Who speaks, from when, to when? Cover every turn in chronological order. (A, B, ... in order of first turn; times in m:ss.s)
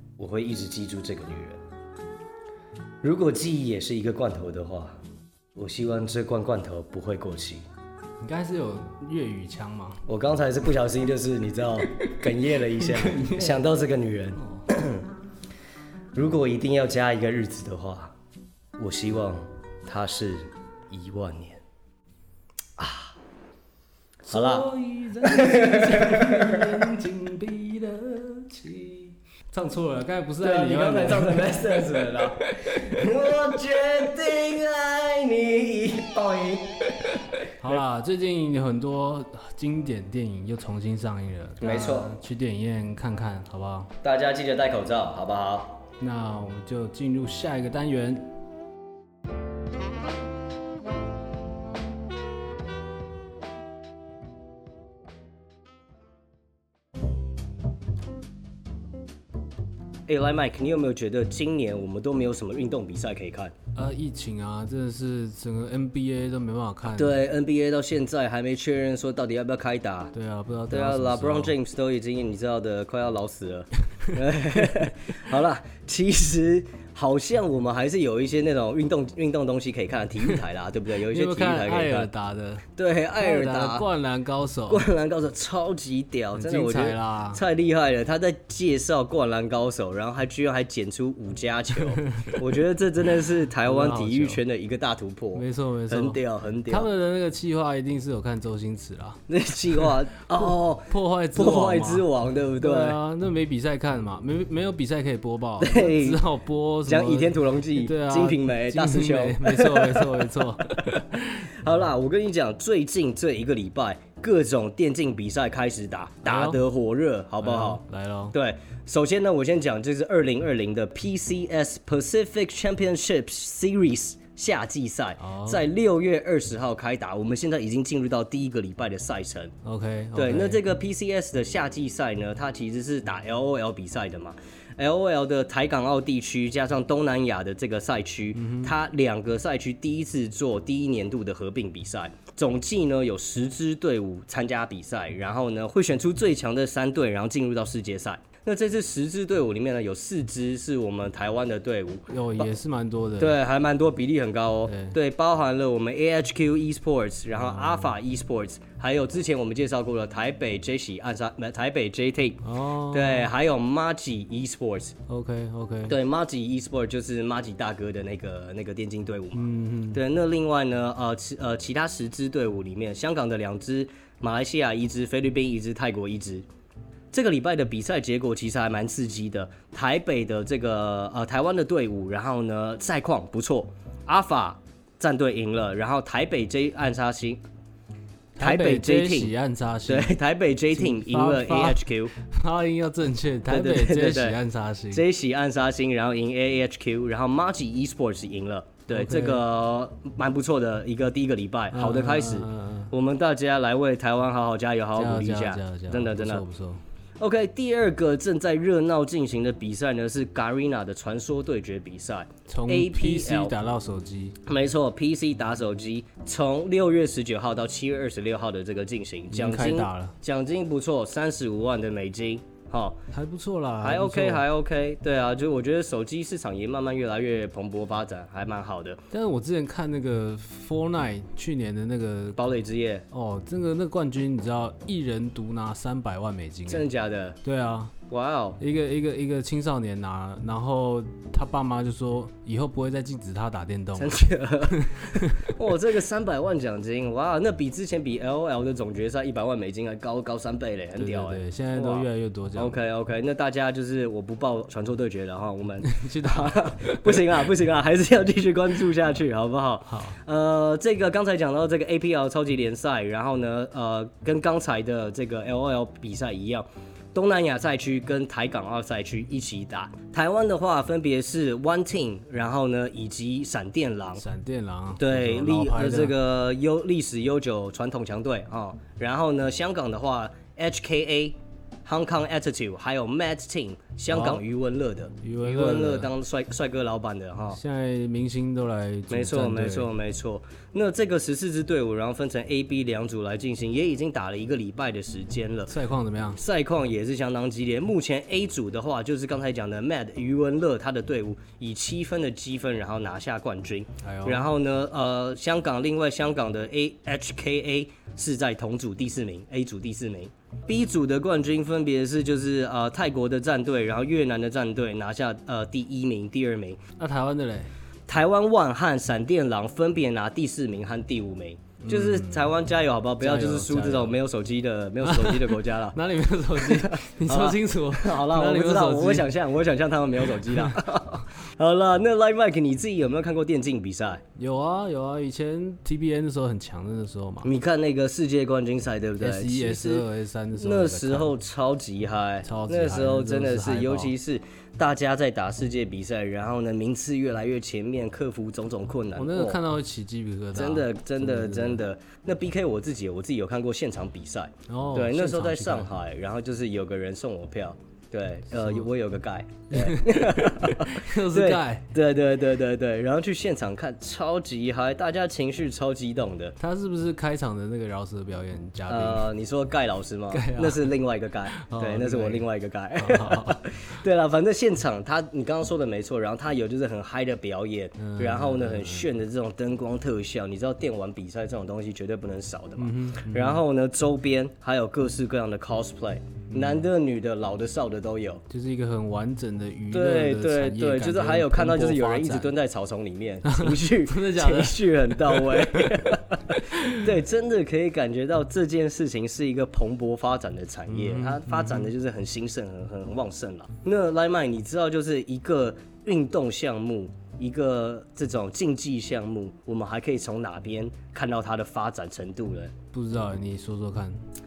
0:00.2-0:01.6 A
0:03.0-0:05.0 A
0:05.6-0:07.6 A
0:08.2-0:10.0 B
0:10.1-0:15.0 A
0:12.8-0:13.6 B
0:14.4-0:14.6 B
0:16.1-0:18.1 A
0:18.8-0:21.6 A
0:22.8-0:23.1 A
0:24.2-0:33.0 B
0:24.3-0:24.7 A
0:25.2-0:26.8 A
0:30.4-0:37.1 A
0:37.6-0:43.9 B
0:41.6-0:42.1 A
0:44.0-0:45.8 A
0:46.0-0:48.3 B
1:00.1-1:03.5 A
1:03.7-1:07.2 B
1:06.9-1:10.1 A
1:10.1-1:11.5 B
1:10.7-1:22.1 A
1:21.0-1:22.6 B
1:22.8-1:23.9 A
1:23.2-1:24.9 B
1:24.7-1:36.9 A
1:26.3-1:27.4 B
1:31.8-1:32.4 B
1:33.6-1:34.4 B
1:35.3-1:42.1 B
1:39.3-1:43.0 A
1:42.6-1:51.5 B
1:45.6-1:46.2 A
1:46.8-1:50.5 A
1:51.6-1:57.8 A
1:56.2-1:56.6 B
1:57.4-1:58.3 B
1:58.3-2:09.5 A
2:05.2-2:05.6 B
2:09.6-2:10.6 B
2:10.2-2:32.5 A
2:18.3-2:18.7 B
2:32.1-2:33.4 B
2:33.2-2:45.0 A
2:34.7-2:35.0 B
2:37.4-2:37.9 B
2:42.4-2:43.3 B
2:45.1-2:46.0 B
2:45.9-2:56.4 A
2:49.3-2:50.0 B
2:57.1-3:07.4 A
3:08.4-3:10.2 B
3:08.4-3:09.3 A
3:09.9-3:12.1 A
3:10.7-3:15.0 B
3:13.5-3:14.4 A
3:14.9-3:26.4 A
3:18.9-3:19.4 B
3:21.7-3:22.9 B
3:24.9-3:26.8 B
3:27.2-3:33.5 A
3:32.5-3:34.4 B
3:34.4-3:43.0 A
3:39.3-3:40.1 B
3:43.1-3:44.4 B
3:43.8-3:49.0 A
3:49.1-3:52.4 B
3:52.4-3:53.0 A
3:53.1-3:56.9 B
3:56.7-3:57.4 A
3:57.4-3:57.9 B
3:58.1-3:58.6 A
3:58.6-4:05.5 B
4:04.0-4:34.2 A
4:11.0-4:12.8 B
4:15.8-4:17.4 B
4:19.9-4:20.2 B
4:34.2-4:36.2 B
4:35.0-4:47.6 A
4:44.1-4:44.4 B
4:45.2-4:46.1 B
4:47.5-4:49.9 B
4:49.1-4:55.7 A
4:55.7-4:56.4 B
4:56.4-5:16.8 A
5:04.0-5:04.5 B
5:17.0-5:17.7 B
5:18.1-5:26.0 A
5:21.8-5:22.6 B
5:23.2-5:24.2 B
5:25.0-5:29.3 B
5:26.6-5:34.2 A
5:30.2-5:30.9 B
5:34.4-5:37.5 B
5:37.4-5:40.0 A
5:39.2-5:41.3 B
5:40.6-5:49.6 A
5:42.4-5:44.1 B
5:49.2-5:51.8 B
5:50.5-6:06.6 A
5:54.7-5:55.9 B
5:58.5-5:58.9 B
5:59.7-6:01.9 B
6:06.6-6:09.3 B
6:08.9-6:28.4 A
6:10.3-6:10.9 B
6:11.6-6:13.6 B
6:18.0-6:19.1 B
6:22.8-6:23.6 B
6:26.5-6:26.8 B
6:28.5-6:32.5 B
6:29.9-6:52.7 A
6:33.4-6:36.1 B
6:36.7-6:37.0 B
6:40.9-6:41.9 B
6:52.9-6:54.2 B